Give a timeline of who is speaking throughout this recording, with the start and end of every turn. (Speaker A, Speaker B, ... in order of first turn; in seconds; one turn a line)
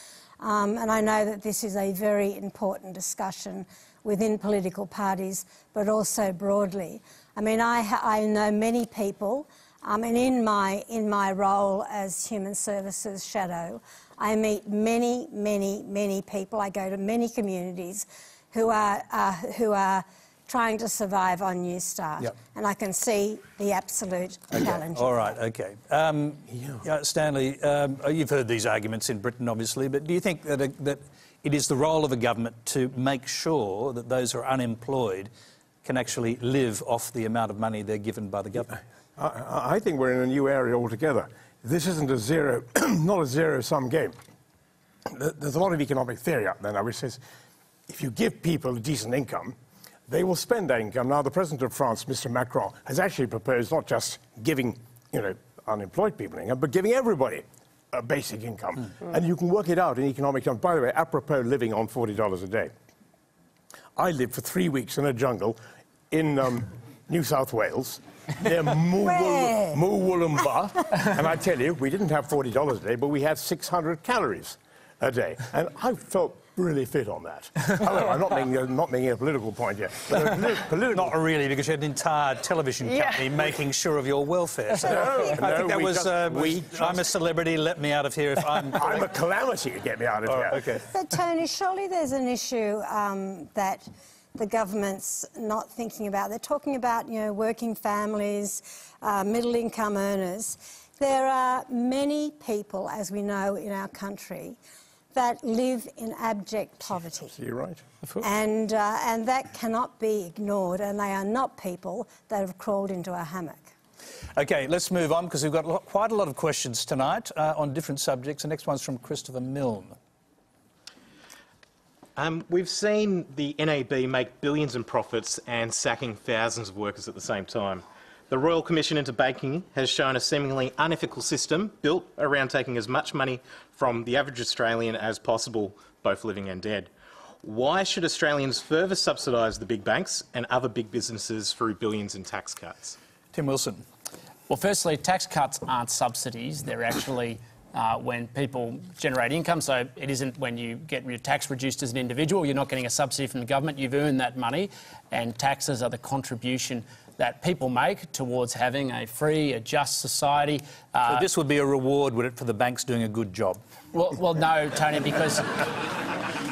Speaker A: 0.4-25.3
Speaker B: 24.6-35.3
Speaker C: 26.5-26.8
Speaker B: 35.8-38.7
Speaker C: 39.2-44.1
Speaker C: 45.1-47.2
Speaker C: 47.9-49.5
Speaker C: 50.1-62.7
Speaker C: 64.0-65.6
Speaker C: 66.1-81.1
Speaker A: 69.0-69.8
Speaker B: 80.1-80.4
Speaker B: 80.9-89.0
Speaker C: 84.8-87.0
Speaker C: 88.8-90.6
Speaker B: 90.3-90.8
Speaker A: 90.9-104.6
Speaker A: 105.1-107.3
Speaker C: 107.3-107.8
Speaker A: 108.2-113.7
Speaker B: 114.4-120.0
Speaker D: 122.2-136.9
Speaker D: 137.4-143.0
Speaker B: 143.3-143.8
Speaker E: 144.5-161.3
Speaker B: 161.1-163.6
Speaker E: 163.9-165.9